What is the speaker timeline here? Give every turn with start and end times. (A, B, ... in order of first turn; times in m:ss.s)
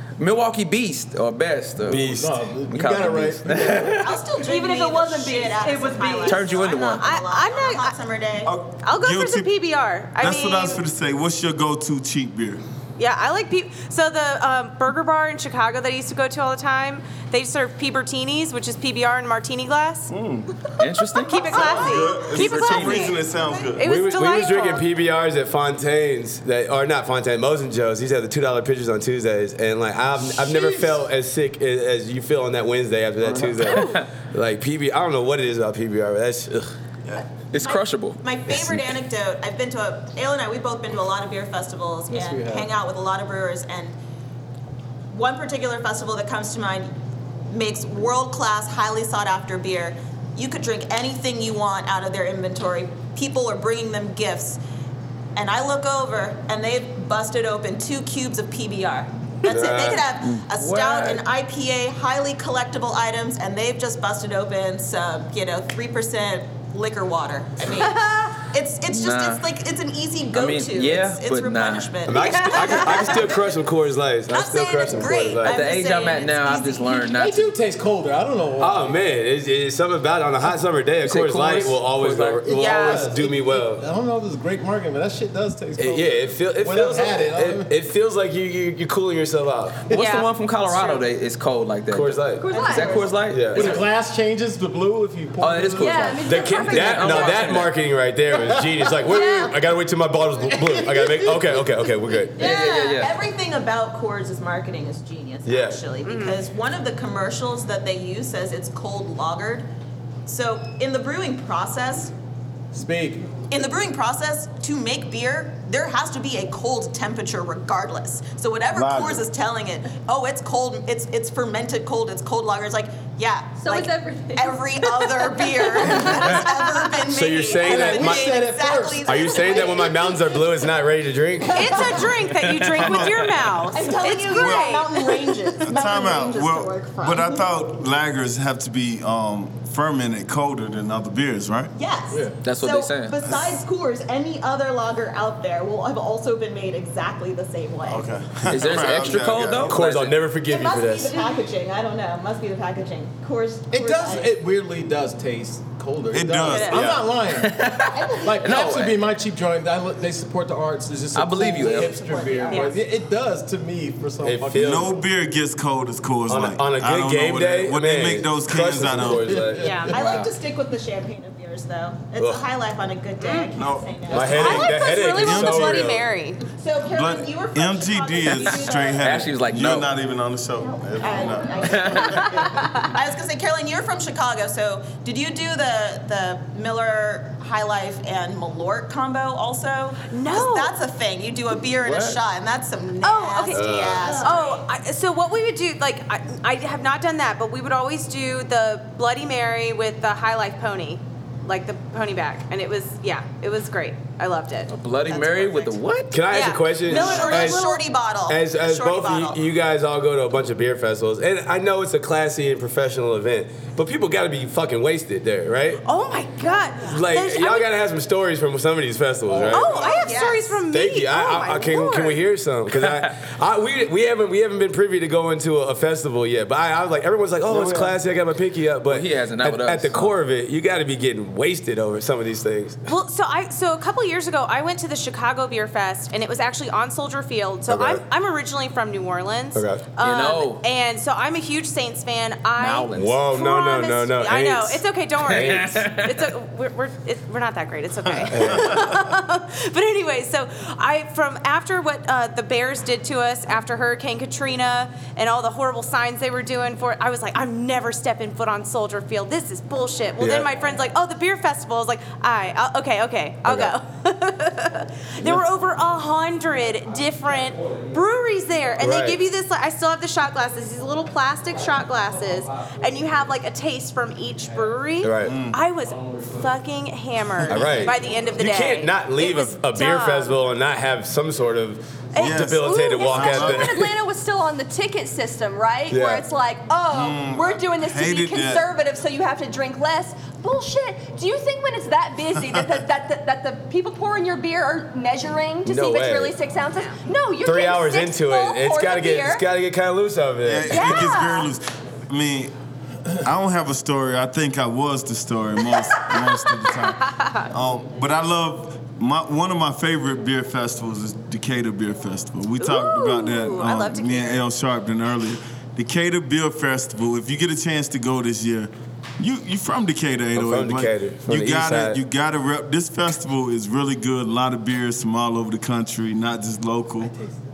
0:00.2-0:02.1 A
0:01.8-0:02.4 B
0:01.9-0:04.0 C
0:02.7-0:04.2 A
0:03.8-0:08.5 D
0:04.3-0:06.5 E
0:06.2-0:07.1 A
0:06.8-0:07.9 F
0:08.4-0:09.5 G
0:08.8-0:10.8 F
0:10.2-0:12.6 G
0:13.0-0:20.1 F
0:20.1-0:20.6 G
0:20.8-0:23.1 A
0:21.2-0:23.2 F
0:21.5-0:23.8 G
0:23.8-0:24.8 F
0:23.8-0:36.7 B
0:33.2-0:33.6 G
0:33.6-0:34.0 F
0:37.5-0:38.2 A
0:37.6-0:44.0 D
0:42.1-0:42.7 C
0:45.1-0:46.9 D
0:47.5-0:54.6 D
0:55.4-1:13.6 D
0:59.5-1:00.1 B
1:00.2-1:01.2 A
1:08.9-1:09.4 A
1:10.3-1:11.9 A
1:12.0-1:15.6 B
1:12.2-1:13.0 F
1:14.3-1:17.2 D
1:15.4-1:17.5 A
1:17.1-1:18.9 C
1:18.6-1:23.8 B
1:21.0-1:22.5 A
1:22.4-1:27.7 C
1:22.5-1:23.1 F
1:25.8-1:29.8 B
1:29.9-1:33.8 A
1:29.9-1:30.2 C
1:29.9-1:30.3 F
1:31.9-1:32.5 B
1:32.4-1:33.1 E
1:32.5-1:33.2 D
1:33.3-1:33.8 B
1:33.5-1:36.4 C
1:35.4-1:37.7 A
1:35.8-1:37.5 E
1:36.2-1:42.5 B
1:38.3-1:39.2 C
1:39.0-1:39.6 E
1:40.6-1:41.6 C
1:42.4-1:49.7 D
1:42.4-1:43.2 A
1:45.4-1:45.8 B
1:46.0-1:46.4 F
1:50.2-1:52.1 D
1:52.7-1:53.3 C
1:53.5-2:10.2 D
1:58.7-1:59.3 G
2:03.6-2:07.0 E
2:07.1-2:08.3 B
2:07.6-2:09.8 C
2:09.0-2:12.1 B
2:11.5-2:15.4 F
2:11.7-2:12.0 D
2:12.2-2:13.3 A
2:12.8-2:13.1 G
2:13.7-2:17.4 D
2:14.2-2:14.8 G
2:15.6-2:21.7 G
2:21.7-2:28.1 D
2:22.1-2:22.3 C
2:22.4-2:23.2 A
2:23.2-2:23.6 G
2:27.8-2:29.8 G
2:28.5-2:30.2 A
2:29.7-2:31.2 B
2:30.4-2:34.3 D
2:33.7-2:45.0 C
2:36.1-2:36.9 G
2:36.5-2:36.8 F
2:36.7-2:37.0 B
2:37.3-2:39.0 A
2:37.9-2:38.3 D
2:41.1-2:41.9 A
2:41.5-2:42.8 D
2:42.5-2:42.8 F
2:44.2-2:44.9 B
2:44.5-2:49.5 G
2:46.3-2:49.8 B
2:49.2-2:50.0 C
2:49.5-2:49.9 F
2:49.5-2:54.7 D
2:49.9-2:50.3 A
2:53.2-2:53.5 F
2:53.6-2:55.9 G
2:54.1-2:56.0 B
2:54.2-2:56.4 F
2:56.6-2:59.2 D
2:56.8-3:02.4 G
2:59.0-2:59.9 A
3:01.0-3:14.6 D
3:01.6-3:02.2 A
3:10.1-3:10.7 F
3:11.8-3:12.2 A
3:13.0-3:24.7 F
3:13.5-3:14.2 B
3:24.7-3:26.2 A
3:25.0-3:25.8 D
3:26.1-3:27.7 B
3:26.3-3:27.8 F
3:26.9-3:29.4 D
3:26.9-3:27.2 A
3:28.2-3:35.8 B
3:35.8-3:37.7 F
3:36.9-3:39.8 B
3:39.3-3:40.0 C
3:39.5-3:42.2 F
3:39.7-3:40.6 D
3:40.7-3:52.8 B
3:42.8-3:43.1 A
3:47.5-3:48.0 G
3:48.9-3:50.1 A
3:52.8-4:40.4 F
3:57.7-3:58.0 B
3:59.5-3:59.8 B
4:00.0-4:00.6 A
4:02.6-4:03.2 A
4:02.9-4:05.8 B
4:05.3-4:06.2 A
4:08.1-4:09.0 G
4:08.3-4:08.8 B
4:20.2-4:20.5 B
4:23.4-4:23.7 B
4:28.8-4:29.2 B
4:35.0-4:35.4 B
4:35.2-4:35.6 G
4:37.4-4:37.9 G
4:37.5-4:43.9 B
4:42.2-4:43.9 G
4:42.2-4:59.4 E
4:45.9-4:46.3 B
4:46.9-4:48.7 G
4:55.6-4:56.4 B
4:57.4-5:01.0 B
5:00.4-5:02.5 G
5:00.7-5:01.5 E
5:03.2-5:27.1 G
5:07.1-5:07.4 F
5:12.6-5:14.0 F
5:13.8-5:14.4 D
5:20.3-5:22.0 B
5:27.0-5:27.4 C